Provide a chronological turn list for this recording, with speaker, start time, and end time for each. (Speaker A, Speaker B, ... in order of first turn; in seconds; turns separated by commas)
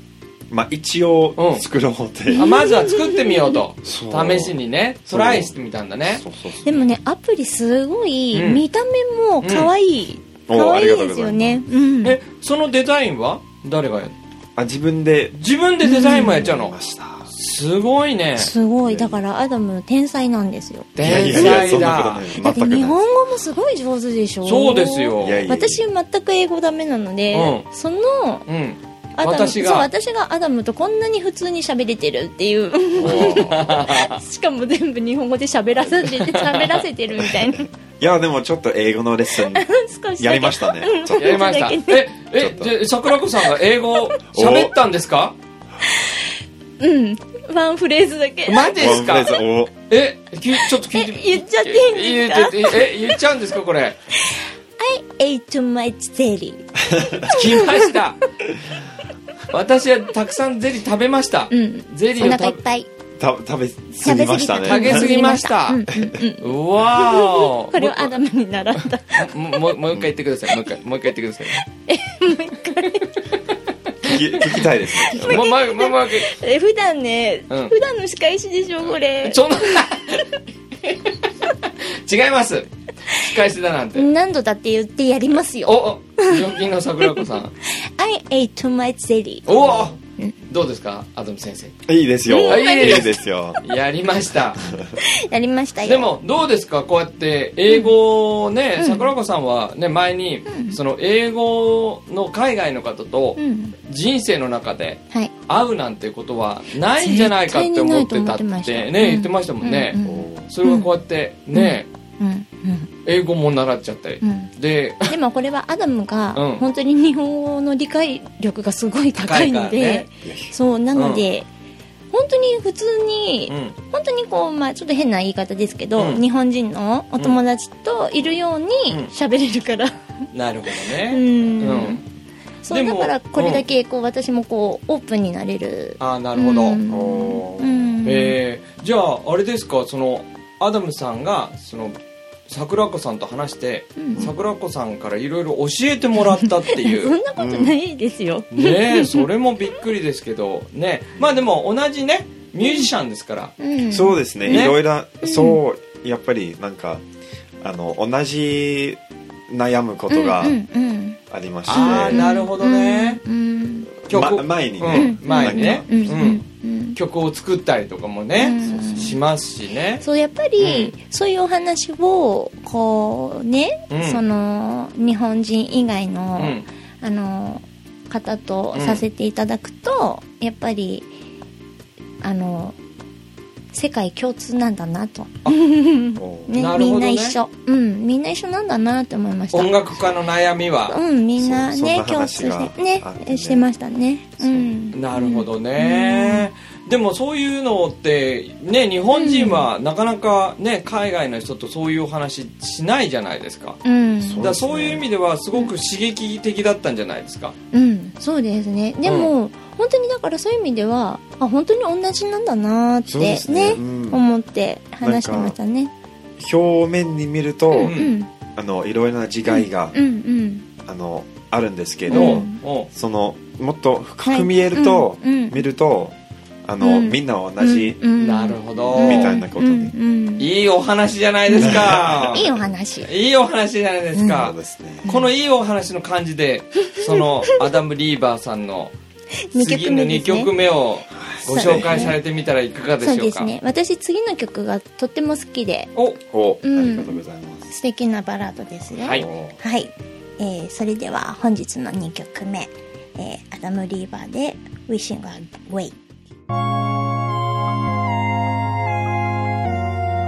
Speaker A: 0.5-2.5, Speaker B: 1.4-1.6, Speaker B: 2.3-6.2, Speaker C: 2.4-3.6, Speaker A: 3.9-4.6, Speaker A: 5.1-5.5, Speaker A: 6.1-6.8, Speaker C: 6.6-12.2, Speaker B: 8.3-8.6, Speaker B: 9.4-9.7, Speaker A: 10.5-11.6, Speaker B: 12.0-14.1, Speaker A: 14.6-15.4, Speaker B: 15.4-16.8, Speaker C: 15.8-16.5, Speaker A: 16.1-17.3, Speaker B: 17.3-18.5, Speaker C: 18.4-21.8, Speaker A: 18.8-19.2, Speaker B: 21.0-22.3, Speaker A: 21.0-23.0, Speaker C: 22.4-28.5, Speaker B: 24.4-25.4, Speaker A: 25.2-25.8, Speaker B: 27.3-27.7, Speaker B: 28.5-29.9, Speaker C: 29.2-37.7, Speaker A: 33.0-33.7, Speaker B: 33.0-34.2, Speaker B: 36.0-36.9, Speaker A: 38.0-41.5, Speaker C: 39.4-42.1, Speaker B: 41.2-45.4, Speaker A: 42.4-42.8, Speaker A: 44.3-44.8, Speaker C: 45.8-49.1, Speaker B: 48.5-49.4, Speaker A: 48.8-49.7, Speaker B: 49.9-54.0, Speaker C: 50.5-52.9, Speaker C: 54.2-57.9, Speaker A: 56.9-57.3, Speaker B: 57.3-58.2, Speaker B: 59.5-62.6, Speaker C: 61.5-62.9, Speaker A: 63.2-65.1, Speaker C: 63.9-69.3, Speaker B: 64.7-65.9, Speaker B: 66.4-68.2, Speaker B: 68.8-71.6, Speaker C: 71.8-73.1, Speaker A: 74.0-75.5, Speaker B: 74.0-74.4, Speaker C: 74.9-79.8, Speaker B: 75.1-76.3, Speaker B: 77.5-77.8, Speaker B: 79.1-84.1, Speaker C: 84.0-86.5, Speaker B: 85.7-87.5, Speaker C: 87.6-89.6, Speaker B: 89.5-90.0, Speaker A: 89.5-89.9, Speaker B: 90.5-91.8, Speaker A: 91.9-93.6, Speaker C: 92.3-93.2, Speaker B: 92.5-94.6, Speaker A: 94.7-94.9, Speaker C: 95.0-96.1, Speaker B: 95.8-111.9, Speaker C: 97.7-97.9, Speaker C: 98.8-99.1, Speaker C: 100.5-100.8, Speaker C: 103.4-103.8, Speaker C: 107.0-110.9, Speaker A: 110.0-110.5, Speaker C: 111.5-112.9, Speaker B: 113.0-115.1, Speaker C: 114.2-114.5, Speaker C: 115.0-121.5, Speaker B: 116.3-116.7, Speaker B: 119.2-120.1, Speaker A: 120.2-120.5, Speaker B: 121.0-121.2, Speaker C: 122.1-132.0, Speaker B: 123.5-123.8, Speaker B: 126.0-126.2, Speaker B: 130.3-132.0, Speaker C: 132.6-138.4, Speaker B: 132.7-133.6, Speaker B: 136.0-136.8, Speaker A: 136.9-137.9, Speaker B: 138.1-147.2, Speaker C: 144.0-144.3, Speaker C: 146.2-149.3, Speaker A: 147.4-147.8, Speaker B: 148.5-153.5, Speaker C: 152.6-152.9, Speaker C: 153.6-155.6, Speaker A: 153.9-157.0, Speaker B: 154.5-154.8, Speaker A: 157.6-160.6, Speaker C: 160.1-161.2, Speaker A: 161.3-162.3, Speaker B: 161.7-163.2, Speaker C: 161.7-163.9, Speaker B: 164.1-170.0, Speaker A: 164.1-166.2, Speaker C: 164.9-167.0, Speaker C: 168.4-169.2, Speaker C: 170.0-181.1, Speaker B: 170.6-170.9, Speaker B: 173.9-174.2, Speaker B: 176.4-176.7, Speaker B: 178.7-179.0, Speaker C: 182.2-182.8, Speaker C: 183.7-189.8, Speaker A: 186.2-186.6, Speaker B: 186.5-187.4, Speaker B: 189.5-191.0, Speaker C: 190.9-196.5, Speaker A: 191.4-193.7, Speaker A: 194.4-194.7, Speaker B: 194.9-203.8, Speaker C: 199.1-199.7, Speaker C: 203.8-204.5, Speaker A: 204.2-205.1, Speaker B: 204.4-207.6, Speaker C: 207.7-215.9, Speaker B: 209.1-209.3, Speaker A: 213.1-214.2, Speaker A: 215.0-215.6, Speaker A: 216.4-218.0, Speaker C: 217.7-218.3, Speaker B: 217.8-218.1, Speaker A: 218.6-220.0, Speaker C: 219.5-220.7, Speaker A: 220.8-228.0, Speaker C: 222.1-222.6, Speaker B: 222.1-222.9, Speaker C: 224.2-225.6, Speaker C: 226.8-230.5, Speaker B: 228.2-229.4, Speaker A: 228.7-229.9, Speaker B: 230.4-232.5, Speaker C: 231.5-233.1, Speaker A: 231.6-232.7, Speaker B: 233.1-238.9, Speaker C: 234.2-234.4, Speaker A: 234.3-235.1, Speaker C: 235.1-235.3, Speaker C: 237.0-237.6, Speaker C: 239.5-240.5, Speaker B: 239.6-243.5, Speaker A: 241.1-242.2, Speaker C: 241.5-242.2, Speaker C: 243.0-245.9, Speaker A: 246.3-247.7, Speaker C: 246.6-256.0, Speaker B: 249.0-249.3, Speaker A: 249.1-249.6